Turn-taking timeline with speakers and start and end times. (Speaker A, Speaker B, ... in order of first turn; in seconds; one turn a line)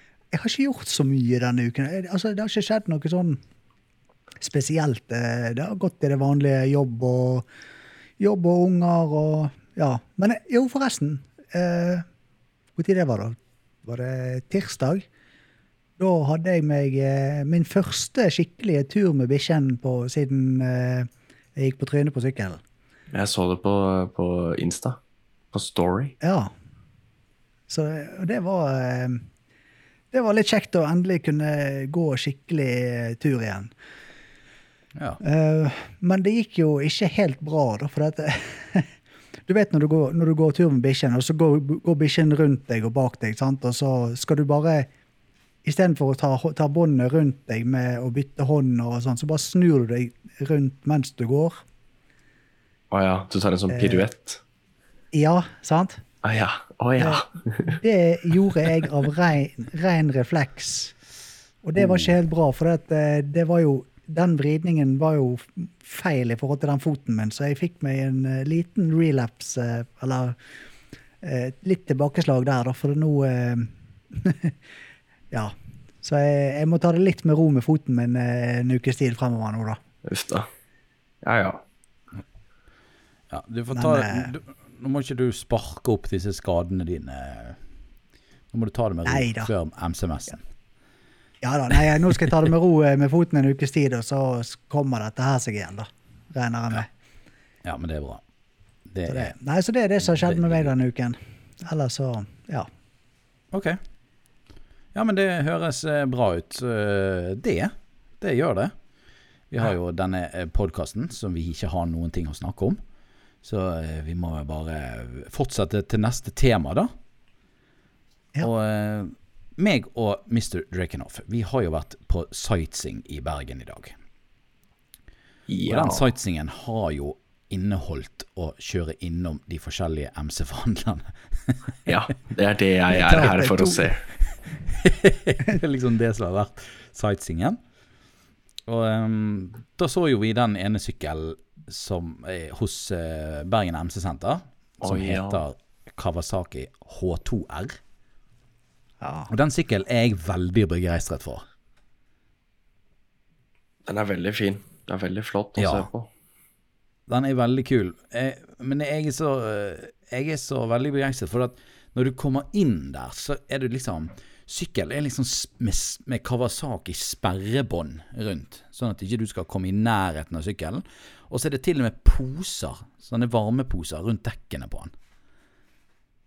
Speaker A: 0.3-3.4
Speaker A: 4.4-7.5
Speaker A: 8.2-12.1
Speaker A: 12.8-15.1
Speaker A: 16.0-22.6
Speaker B: 23.1-25.0
Speaker B: 25.5-26.2
Speaker A: 26.2-26.5
Speaker A: 27.7-29.2
Speaker A: 30.1-33.7
Speaker C: 35.0-35.2
Speaker A: 35.2-38.9
Speaker A: 39.5-44.9
Speaker A: 45.6-51.6
Speaker B: 52.9-54.4
Speaker A: 53.7-54.1
Speaker A: 55.1-56.0
Speaker B: 56.2-57.8
Speaker A: 57.0-60.9
Speaker A: 61.6-70.4
Speaker A: 71.2-74.5
Speaker A: 75.3-79.8
Speaker B: 80.0-80.5
Speaker B: 81.2-81.6
Speaker C: 83.3-87.6
Speaker A: 83.7-84.3
Speaker C: 88.5-90.4
Speaker A: 89.1-89.5
Speaker A: 91.4-96.9
Speaker C: 97.6-98.2
Speaker C: 98.9-99.3
Speaker A: 99.1-102.7
Speaker C: 100.1-100.7
Speaker C: 103.5-103.8
Speaker C: 104.9-108.7
Speaker C: 109.5-112.8
Speaker C: 113.4-116.9
Speaker C: 118.4-124.0
Speaker B: 125.5-126.0
Speaker C: 125.7-131.7
Speaker B: 131.9-134.0
Speaker A: 132.9-133.9
Speaker C: 134.7-137.6
Speaker C: 138.7-147.8
Speaker B: 144.8-145.4
Speaker A: 149.0-149.3
Speaker C: 149.3-151.5
Speaker B: 153.9-156.1
Speaker C: 155.6-155.9
Speaker C: 157.1-174.9